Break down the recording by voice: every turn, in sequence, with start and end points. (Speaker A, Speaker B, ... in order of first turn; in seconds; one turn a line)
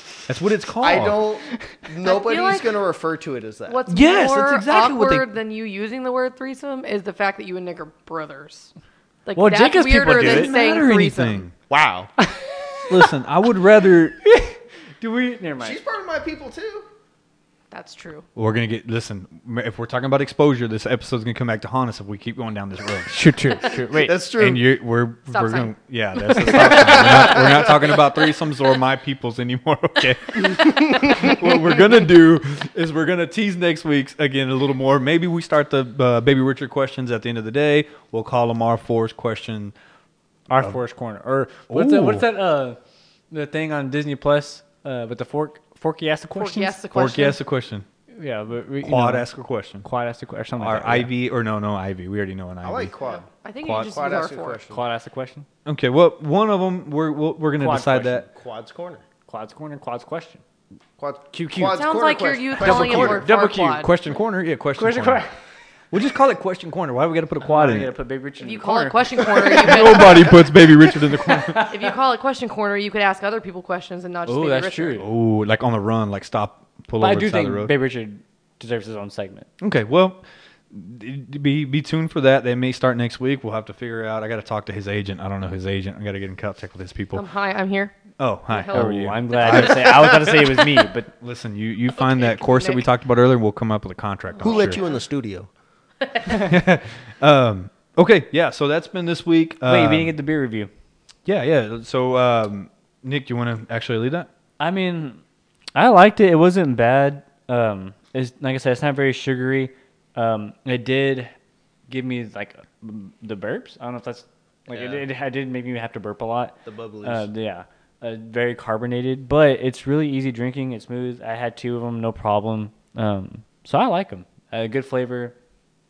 Speaker A: 0.2-1.2
Speaker B: 0.8-3.8
Speaker C: 2.0-2.8
Speaker C: 3.7-8.7
Speaker A: 3.9-5.3
Speaker C: 9.2-11.4
Speaker D: 9.3-10.5
Speaker A: 10.1-11.5
Speaker B: 11.7-12.1
Speaker A: 12.9-14.2
Speaker D: 14.2-15.8
Speaker B: 15.6-16.9
Speaker C: 17.7-18.3
Speaker A: 18.4-23.2
Speaker D: 23.1-24.1
Speaker B: 23.6-24.7
Speaker A: 24.4-39.7
Speaker C: 25.3-25.7
Speaker C: 26.2-27.2
Speaker B: 26.5-28.0
Speaker D: 26.6-27.0
Speaker B: 30.6-31.3
Speaker D: 40.5-42.8
Speaker A: 41.7-42.2
Speaker D: 43.3-46.8
Speaker C: 46.3-47.4
Speaker A: 46.9-47.9
Speaker D: 48.1-49.3
Speaker A: 48.8-49.9
Speaker D: 49.8-51.1
Speaker A: 50.6-52.9
Speaker B: 52.6-54.8
Speaker C: 53.0-54.6
Speaker A: 53.6-53.9
Speaker D: 54.7-55.5
Speaker A: 55.6-58.2
Speaker D: 57.6-58.1
Speaker B: 58.0-59.0
Speaker D: 59.3-60.4
Speaker B: 61.0-63.3
Speaker D: 61.3-61.8
Speaker C: 61.7-63.9
Speaker D: 62.6-63.4
Speaker A: 62.6-65.3
Speaker D: 64.8-65.3
Speaker A: 65.9-67.9
Speaker D: 67.4-72.0
Speaker C: 68.4-70.4
Speaker A: 69.2-71.7
Speaker C: 71.7-75.0
Speaker D: 74.2-75.0
Speaker A: 75.0-77.7
Speaker D: 77.0-79.5
Speaker A: 79.6-87.2
Speaker C: 87.1-88.0
Speaker A: 88.2-90.0
Speaker C: 88.5-90.2
Speaker D: 88.7-91.1
Speaker A: 91.1-94.8
Speaker C: 91.9-92.9
Speaker C: 94.4-94.8
Speaker B: 94.4-95.5
Speaker C: 96.0-96.5
Speaker A: 96.4-100.1
Speaker D: 99.6-100.7
Speaker A: 101.2-104.3
Speaker D: 104.6-105.2
Speaker D: 105.7-111.3
Speaker D: 111.9-125.3
Speaker B: 114.7-115.0
Speaker B: 116.7-117.3